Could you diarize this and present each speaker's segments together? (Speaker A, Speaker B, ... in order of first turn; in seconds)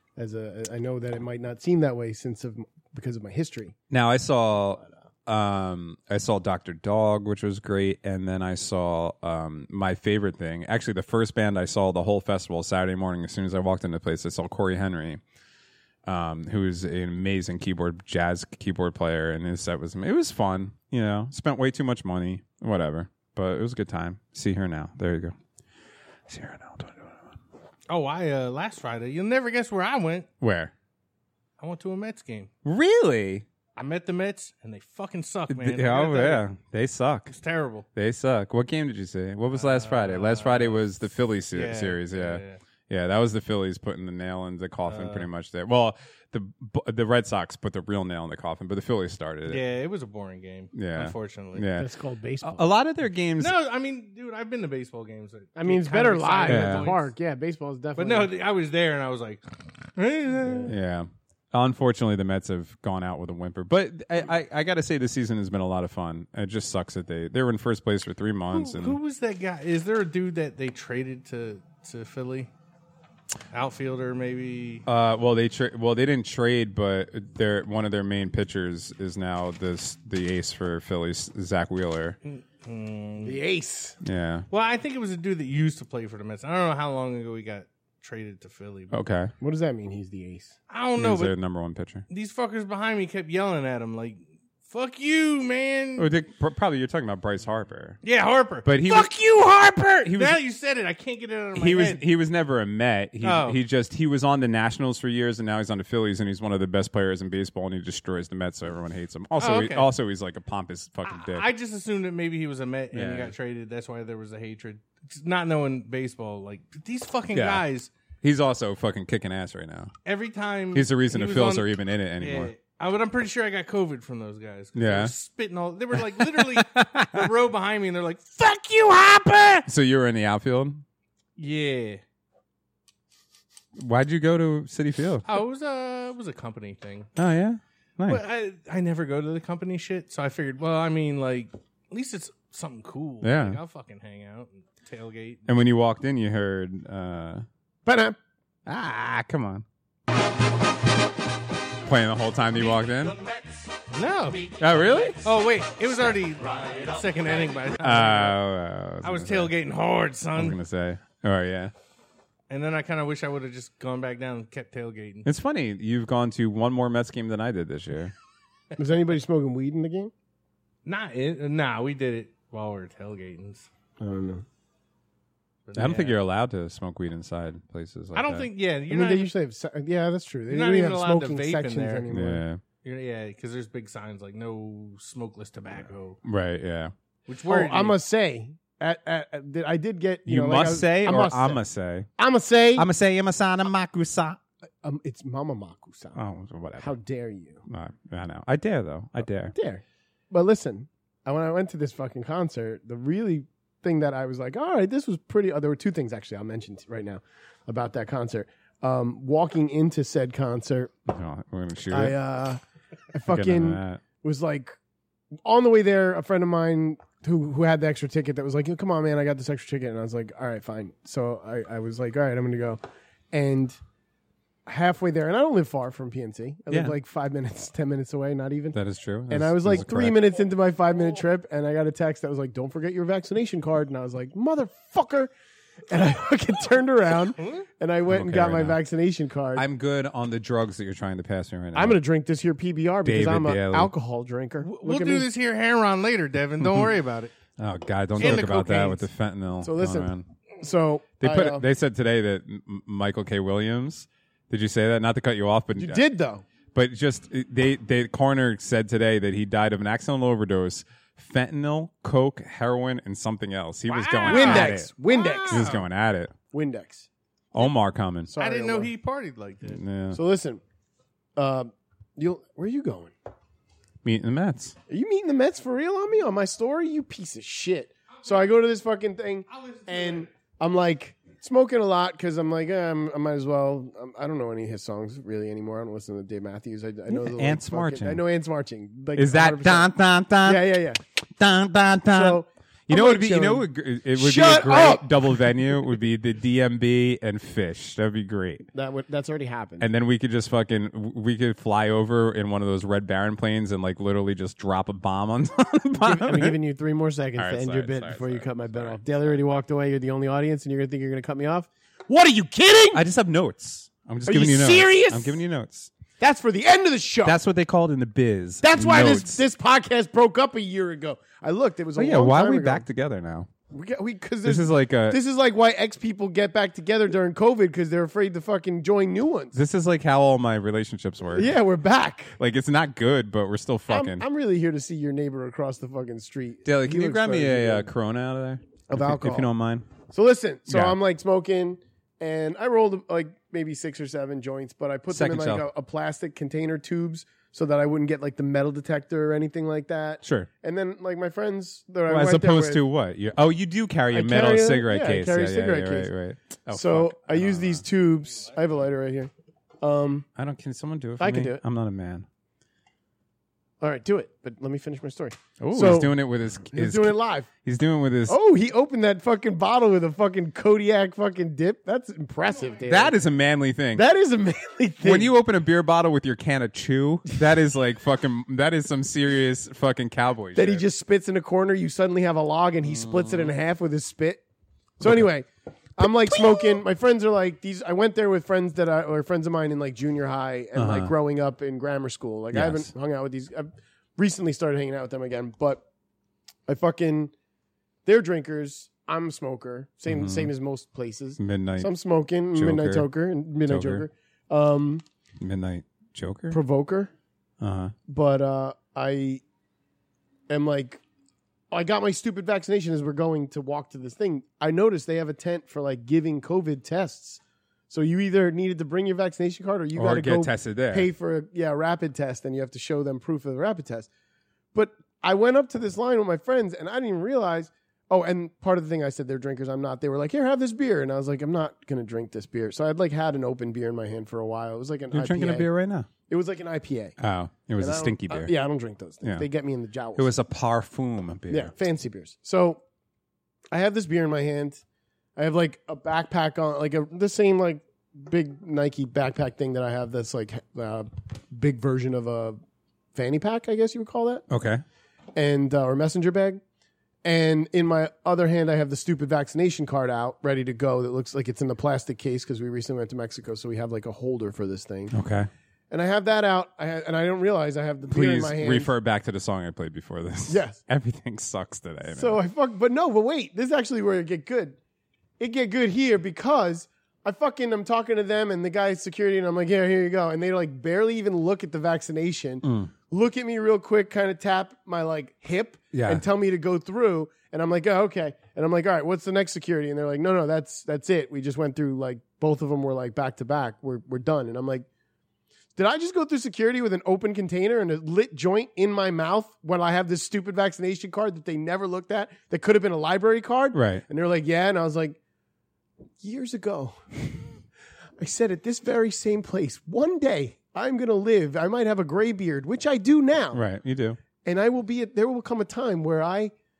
Speaker A: 0.2-3.7, 51.7-52.6, 55.5-58.3, 83.2-84.0, 89.4-90.5, 147.8-148.2, 168.8-170.1, 174.0-174.4, 178.9-182.4, 187.5-191.6, 192.2-192.9, 194.8-196.2, 196.8-197.6, 199.5-210.9, 211.9-212.6, 213.1-214.8, 215.4-222.8, 223.3-223.8, 224.7-235.3, 235.9-239.6, 241.7-245.3, 249.6-251.6, 255.8-256.4, 264.2-265.7, 266.5-267.1, 268.3-268.9, 270.1-270.6, 271.4-273.1, 274.9-289.9, 290.4-291.0, 292.1-295.5, 298.7-299.9, 306.0-313.0, 314.2-315.4, 316.2-317.4, 318.6-322.9, 323.7-329.6, 331.3-332.4, 333.9-337.9, 338.9-339.5, 340.1-352.8, 354.1-356.1, 356.7-359.3, 359.8-360.2, 361.2-361.6, 363.8-367.5, 368.3-373.2, 373.9-375.3, 380.5-384.4, 385.0-395.8, 396.7-397.3, 398.1-405.0, 406.5-407.1, 408.1-409.4, 410.5-411.0, 411.7-424.1, 424.7-435.7, 436.3-437.1, 437.8-440.3, 441.5-442.8, 443.7-444.8, 445.4-452.6, 453.1-454.4, 455.3-456.6, 457.2-465.1, 465.9-468.9, 470.5-470.8, 472.1-474.8, 475.4-494.9, 495.8-505.2, 506.2-507.0, 508.2-513.6, 514.4-516.5
Speaker B: 3.9-15.2, 16.1-25.4, 26.3-27.3, 30.4-30.7, 32.6-33.5, 35.5-37.3, 37.9-49.6, 50.7-51.9, 52.4-53.5, 56.5-56.9, 60.7-69.0, 74.8-82.2, 84.0-84.5, 88.9-89.3, 91.0-92.0, 96.0-98.0, 98.6-99.1, 100.0-100.4, 101.5-111.5, 112.9-113.3, 117.3-117.6, 118.2-119.9, 120.7-122.5, 124.7-125.1, 126.0-127.3, 129.7-130.8, 133.8-135.2, 137.2-138.2, 143.2-143.6, 145.5-147.4, 148.7-149.6, 151.8-153.2, 154.6-155.3, 157.8-159.5, 160.3-161.7, 165.2-168.1, 175.8-178.5, 182.1-182.6, 186.2-186.9, 190.2-192.1, 192.7-194.4, 196.1-196.9, 197.7-199.5, 211.1-212.2, 213.3-214.0, 226.7-226.9, 228.7-230.2, 238.1-238.8, 239.5-242.0, 243.0-243.9, 246.6-246.9, 247.6-250.2, 251.2-256.0, 256.7-264.9, 265.5-266.3, 267.5-268.3, 269.6-270.2, 274.0-274.8, 287.1-288.2, 289.1-290.6, 291.4-298.7, 299.8-306.6, 307.4-309.5, 312.9-315.9, 317.2-319.4, 321.9-323.5, 324.4-325.2, 329.5-331.5, 332.4-334.2, 336.6-339.9, 340.7-340.9, 345.1-345.7, 350.2-350.5, 352.1-357.8, 360.4-362.3, 365.6-368.4, 372.8-374.1, 375.0-380.8, 382.9-383.5, 386.0-386.6, 390.7-391.1, 392.5-392.9, 400.1-400.5, 401.4-401.9, 402.5-403.1, 403.6-404.1, 405.4-406.6, 407.6-407.9, 419.9-421.1, 435.1-436.1, 437.2-438.5, 440.1-441.7, 454.5-454.8, 465.1-465.5, 468.1-472.4, 482.6-482.9, 485.9-486.2, 503.7-504.0, 513.5-514.2
Speaker C: 27.9-30.3, 31.6-32.5, 33.8-36.5, 37.3-37.9, 39.5-40.9, 41.5-42.6, 44.9-45.3, 49.5-51.6, 53.4-57.1, 58.0-59.4, 60.0-60.7, 68.5-72.5, 73.5-74.8, 82.2-83.4, 84.5-89.0, 90.7-91.3, 92.1-96.1, 98.0-102.0, 103.2-103.6, 109.4-109.9, 111.0-117.9, 120.0-129.7, 131.4-132.0, 135.2-137.1, 138.1-145.4, 153.9-154.6, 155.2-158.4, 159.0-160.6, 162.5-165.3, 170.8-173.7, 175.7-176.2, 178.1-179.3, 180.5-182.1, 182.8-186.2, 187.3-188.0, 237.4-237.7, 244.6-247.3, 248.2-249.0, 263.9-265.8, 268.4-269.8, 279.5-280.3